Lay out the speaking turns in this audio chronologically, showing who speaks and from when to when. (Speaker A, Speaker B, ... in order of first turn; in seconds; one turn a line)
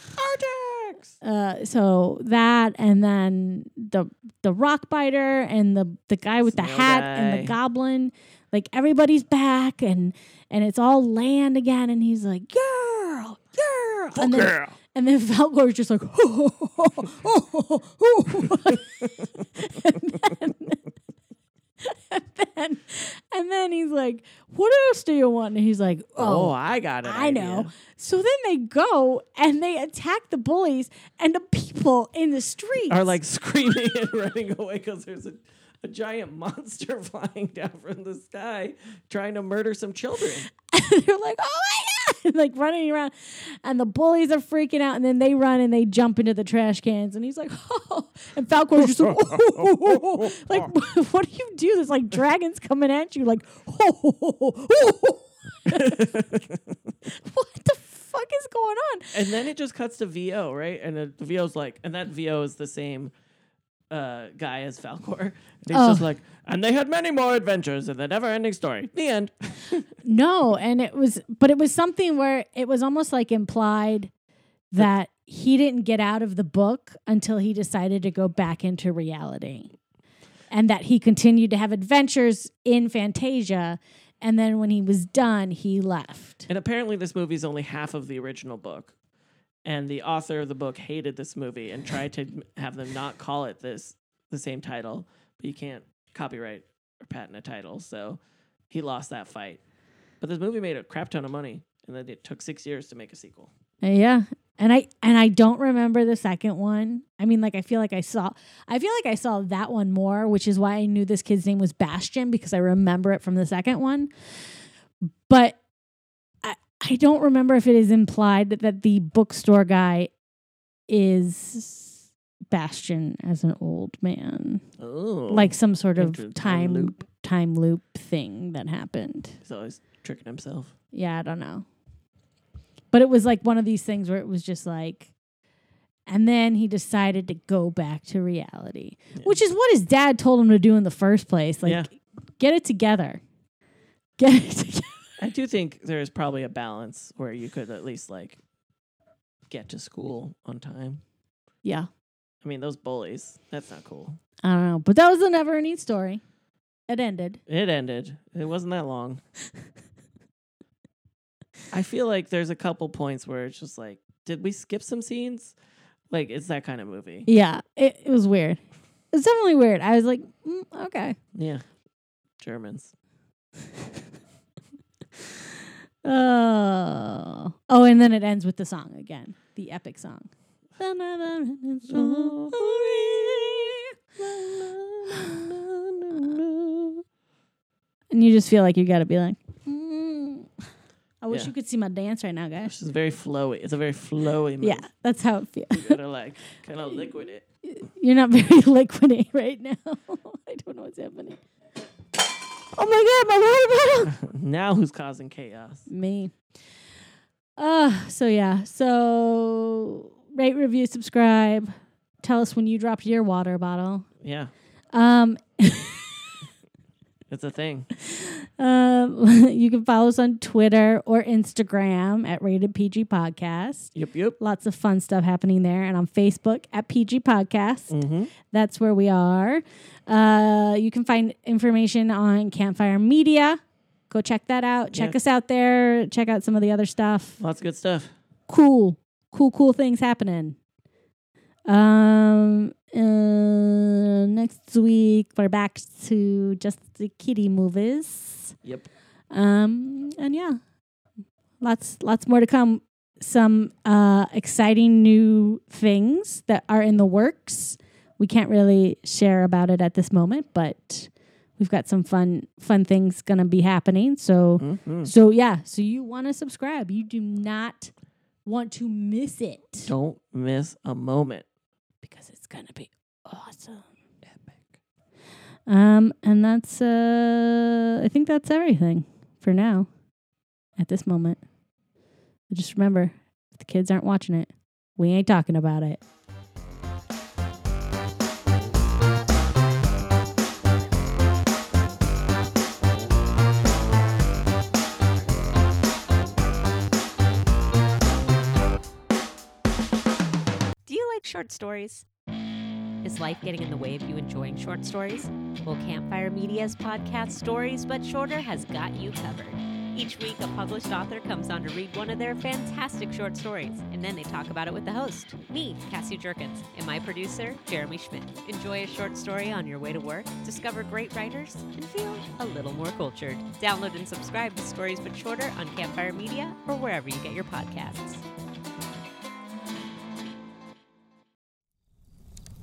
Speaker A: 0.1-1.1
Speaker B: 1.2-20.9
Speaker A: 6.4-7.5
Speaker A: 14.1-14.8
Speaker B: 21.8-33.2
Speaker A: 26.2-27.7
Speaker A: 32.9-40.5
Speaker B: 40.7-56.3
Speaker A: 48.8-50.7
Speaker A: 55.7-56.6
Speaker B: 57.0-59.3
Speaker A: 59.1-63.1
Speaker A: 63.9-69.8
Speaker B: 65.7-66.1
Speaker B: 70.0-74.1
Speaker B: 74.7-79.7
Speaker B: 80.5-86.5
Speaker A: 86.5-88.9
Speaker A: 89.6-99.6
Speaker A: 100.2-103.5
Speaker B: 103.8-114.1
Speaker B: 115.2-115.6
Speaker B: 116.4-120.1
Speaker B: 120.9-124.6
Speaker A: 124.8-127.0
Speaker B: 125.3-129.4
Speaker A: 129.4-130.7
Speaker B: 130.9-131.6
Speaker B: 132.9-135.1
Speaker B: 136.1-143.2
Speaker B: 144.2-145.0
Speaker A: 145.2-148.4
Speaker A: 149.5-151.0
Speaker A: 152.4-154.2
Speaker B: 154.4-156.2
Speaker B: 156.9-157.4
Speaker A: 157.5-159.2
Speaker A: 161.7-165.5
Speaker A: 166.1-167.3
Speaker B: 167.3-168.6
Speaker B: 169.1-171.2
Speaker A: 171.3-171.6
Speaker A: 172.4-172.9
Speaker B: 176.0-183.9
Speaker A: 181.9-187.0
Speaker B: 185.1-185.4
Speaker B: 188.1-190.5
Speaker B: 191.2-192.7
Speaker A: 192.6-194.8
Speaker B: 194.6-196.0
Speaker A: 195.7-197.4
Speaker B: 197.6-201.4
Speaker B: 202.7-204.1
Speaker A: 204.1-205.9
Speaker B: 205.9-206.3
Speaker B: 207.6-214.1
Speaker A: 214.2-214.5
Speaker B: 214.9-216.3
Speaker A: 217.3-217.9
Speaker B: 218.0-228.0
Speaker A: 223.9-224.4
Speaker A: 227.9-228.3
Speaker B: 228.5-237.4
Speaker A: 234.9-235.2
Speaker A: 237.4-238.1
Speaker B: 238.5-240.6
Speaker B: 241.7-248.6
Speaker B: 249.3-250.6
Speaker B: 251.6-267.9
Speaker A: 264.6-265.1
Speaker B: 268.4-269.9
Speaker A: 269.9-271.4
Speaker B: 272.0-273.9
Speaker A: 274.2-274.7
Speaker B: 275.7-279.9
Speaker B: 280.8-281.4
Speaker B: 282.5-286.0
Speaker C: 300.9-302.1
Speaker C: 303.0-328.2